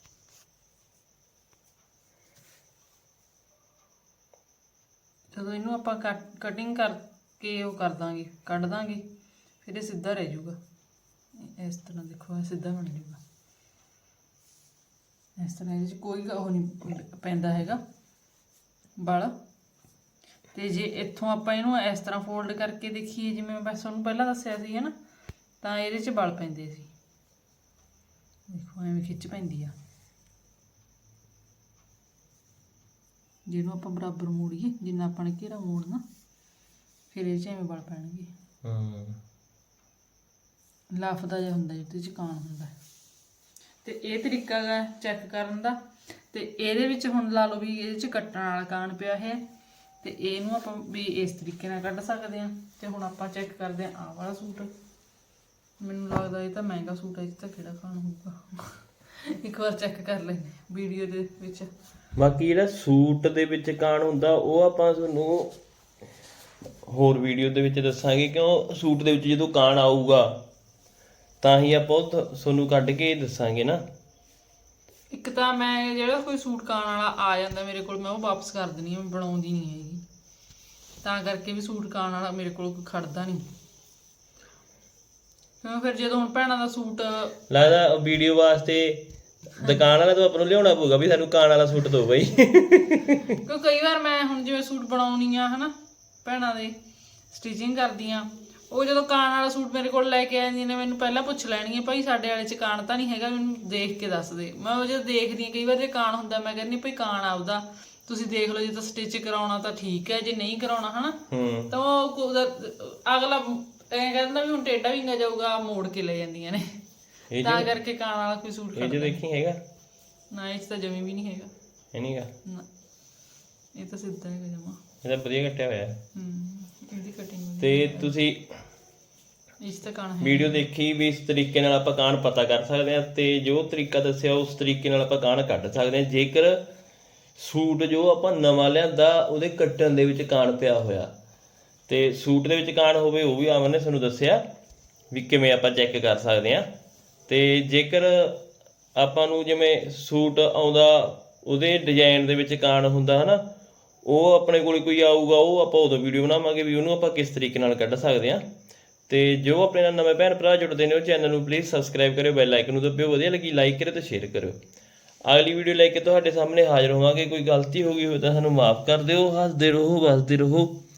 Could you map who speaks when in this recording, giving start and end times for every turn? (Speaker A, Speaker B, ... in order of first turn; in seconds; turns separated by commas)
Speaker A: 5.3-9.0, Speaker A: 9.6-10.6, Speaker A: 11.4-13.2, Speaker A: 15.4-17.8, Speaker A: 19.0-19.3, Speaker A: 20.5-24.9, Speaker A: 25.6-26.9, Speaker A: 28.5-29.8, Speaker A: 33.5-36.0, Speaker A: 37.1-38.3, Speaker B: 38.6-39.2, Speaker A: 40.9-42.7, Speaker A: 43.8-45.8, Speaker A: 46.3-49.4, Speaker A: 50.0-54.7, Speaker A: 55.8-61.7, Speaker B: 62.1-65.5, Speaker B: 66.8-70.4, Speaker B: 71.4-73.8, Speaker A: 75.1-80.0, Speaker A: 81.0-83.4, Speaker A: 85.6-87.4, Speaker B: 87.5-89.0, Speaker B: 89.6-93.3, Speaker A: 93.4-96.8, Speaker A: 97.3-111.2, Speaker B: 111.3-111.7, Speaker A: 111.7-116.8, Speaker B: 117.3-117.7, Speaker A: 117.4-119.2, Speaker B: 118.8-119.6, Speaker A: 120.3-121.5, Speaker B: 121.9-122.3, Speaker A: 123.8-124.8, Speaker B: 125.0-126.0, Speaker A: 126.1-128.1, Speaker B: 127.6-128.5, Speaker A: 129.6-130.6, Speaker B: 130.2-136.6, Speaker B: 137.4-141.1, Speaker B: 141.9-144.4, Speaker B: 145.1-146.7, Speaker B: 147.3-148.4, Speaker B: 148.9-153.4, Speaker B: 154.0-158.4, Speaker B: 159.1-164.6, Speaker B: 165.2-170.7